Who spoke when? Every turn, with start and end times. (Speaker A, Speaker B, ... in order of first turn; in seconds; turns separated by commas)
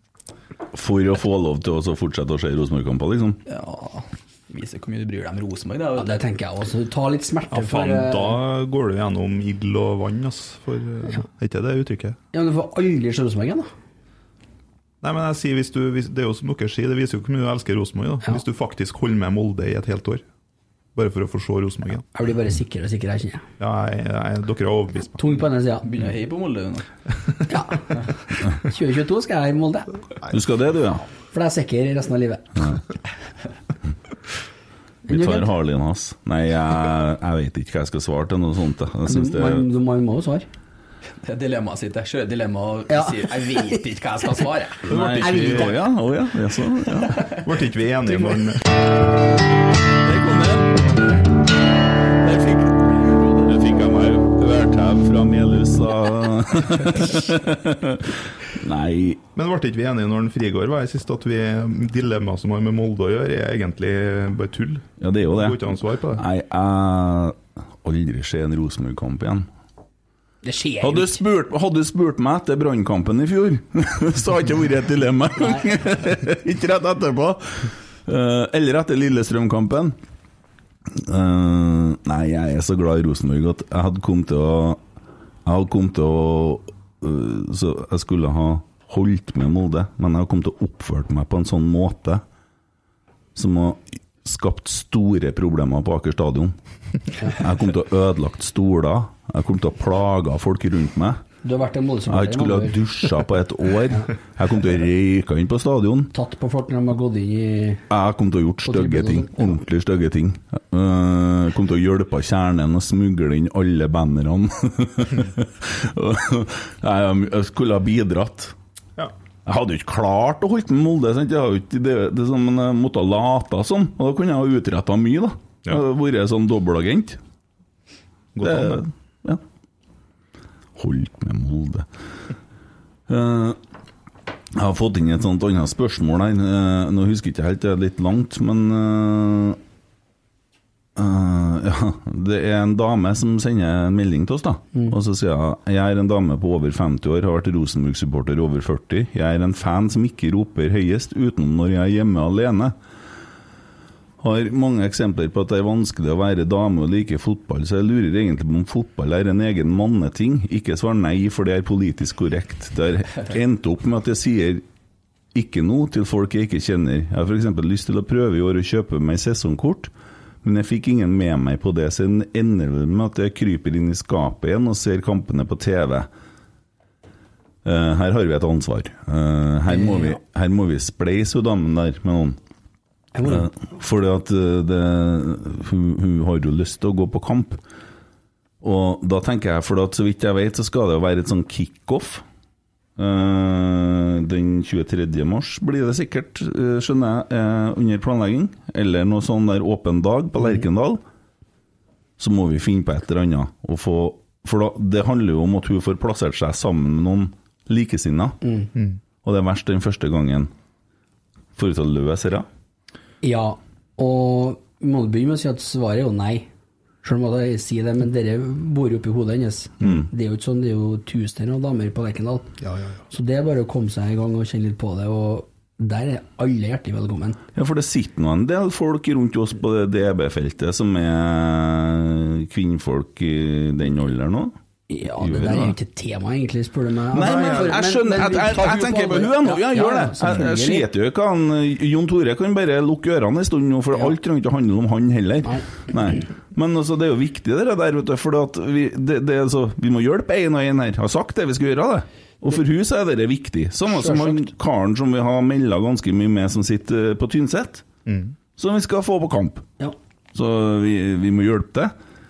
Speaker A: 0.7-3.4, Speaker B: 3.5-6.1, Speaker C: 6.0-8.4, Speaker D: 7.5-12.2, Speaker C: 12.3-13.7, Speaker D: 15.0-20.2, Speaker D: 20.9-22.1, Speaker C: 22.1-23.4, Speaker D: 23.6-25.2, Speaker C: 25.2-25.9, Speaker B: 25.8-26.9, Speaker C: 27.5-27.9, Speaker C: 28.6-29.9, Speaker A: 30.3-31.0, Speaker C: 31.3-32.8, Speaker C: 35.1-35.5, Speaker A: 35.1-39.6, Speaker C: 39.1-40.5, Speaker B: 41.2-45.5, Speaker C: 42.9-43.8, Speaker A: 44.9-47.3, Speaker C: 45.0-45.7, Speaker D: 47.4-48.7, Speaker A: 50.0-51.0, Speaker A: 52.2-52.7, Speaker B: 53.0-53.5, Speaker A: 53.5-59.2, Speaker D: 59.3-66.2, Speaker A: 65.0-65.6, Speaker A: 66.2-69.5, Speaker C: 70.4-71.2, Speaker A: 70.8-80.0, Speaker C: 75.4-75.7, Speaker A: 80.9-84.8, Speaker A: 85.5-92.2, Speaker A: 93.3-96.5, Speaker A: 97.3-101.2, Speaker C: 101.4-102.8, Speaker A: 102.1-106.1, Speaker C: 106.1-107.8, Speaker A: 107.9-118.5, Speaker C: 108.6-109.6, Speaker A: 119.5-127.2, Speaker D: 128.3-128.8, Speaker A: 128.4-129.4, Speaker A: 130.8-131.9, Speaker A: 133.1-133.6, Speaker A: 134.5-139.6, Speaker A: 140.9-152.7, Speaker A: 154.2-164.6, Speaker A: 165.3-169.9, Speaker A: 170.4-176.1, Speaker A: 177.6-182.4, Speaker C: 179.7-180.2, Speaker C: 183.1-183.5, Speaker A: 183.2-187.6, Speaker A: 188.6-192.2, Speaker A: 193.0-201.0, Speaker A: 202.2-208.4, Speaker C: 208.4-208.7, Speaker A: 209.2-210.5, Speaker A: 211.6-212.4, Speaker C: 213.2-216.5, Speaker C: 217.0-222.5, Speaker A: 219.8-220.1, Speaker D: 222.6-223.0, Speaker C: 223.1-227.4, Speaker A: 227.5-234.5, Speaker C: 234.9-240.8, Speaker A: 235.2-235.8, Speaker A: 237.1-257.9, Speaker D: 237.2-237.7, Speaker C: 253.9-254.4, Speaker D: 258.1-258.4, Speaker A: 258.6-259.6, Speaker A: 260.3-261.9